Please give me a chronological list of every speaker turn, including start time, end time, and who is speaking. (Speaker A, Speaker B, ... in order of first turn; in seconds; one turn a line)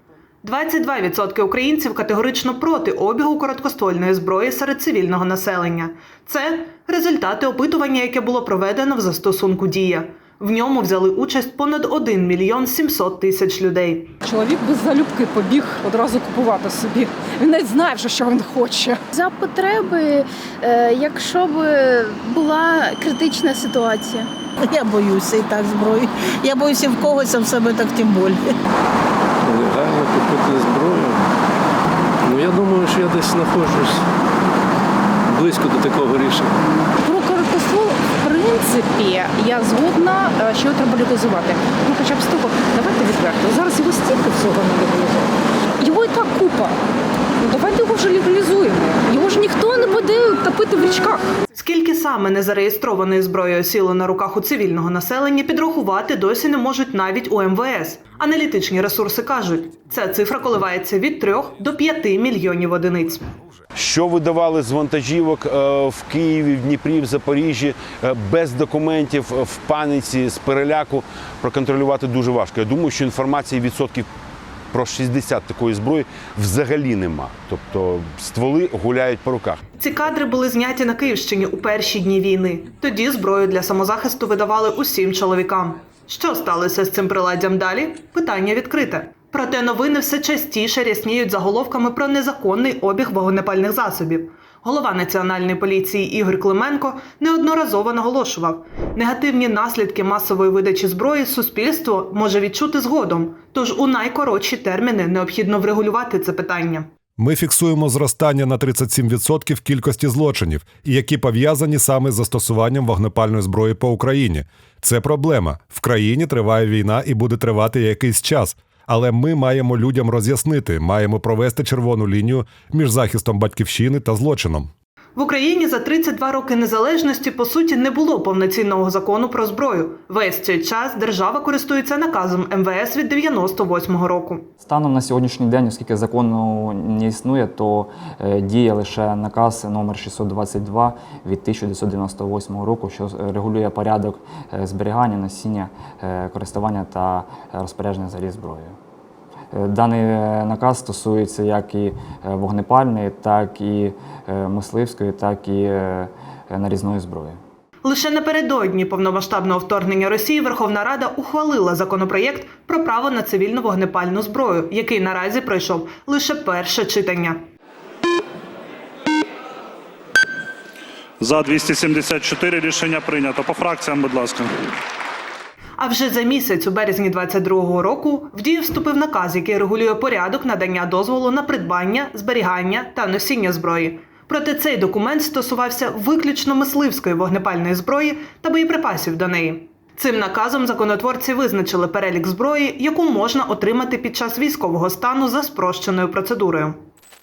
Speaker A: 0.4-14.1
Speaker B: 14.2-19.0
Speaker C: 19.1-24.3
Speaker D: 24.6-28.4
Speaker E: 29.4-31.2
Speaker E: 32.2-34.0
Speaker E: 35.3-36.5
Speaker B: 37.0-46.8
Speaker B: 47.4-51.2
Speaker A: 51.5-63.2
Speaker F: 63.7-74.1
Speaker F: 74.7-79.6
Speaker A: 79.8-106.9
Speaker G: 107.2-124.7
Speaker A: 125.2-134.4
Speaker H: 134.6-148.8
Speaker H: 149.5-157.4
Speaker A: 157.8-167.4
Speaker I: 171.2-174.5
Speaker A: 175.8-196.8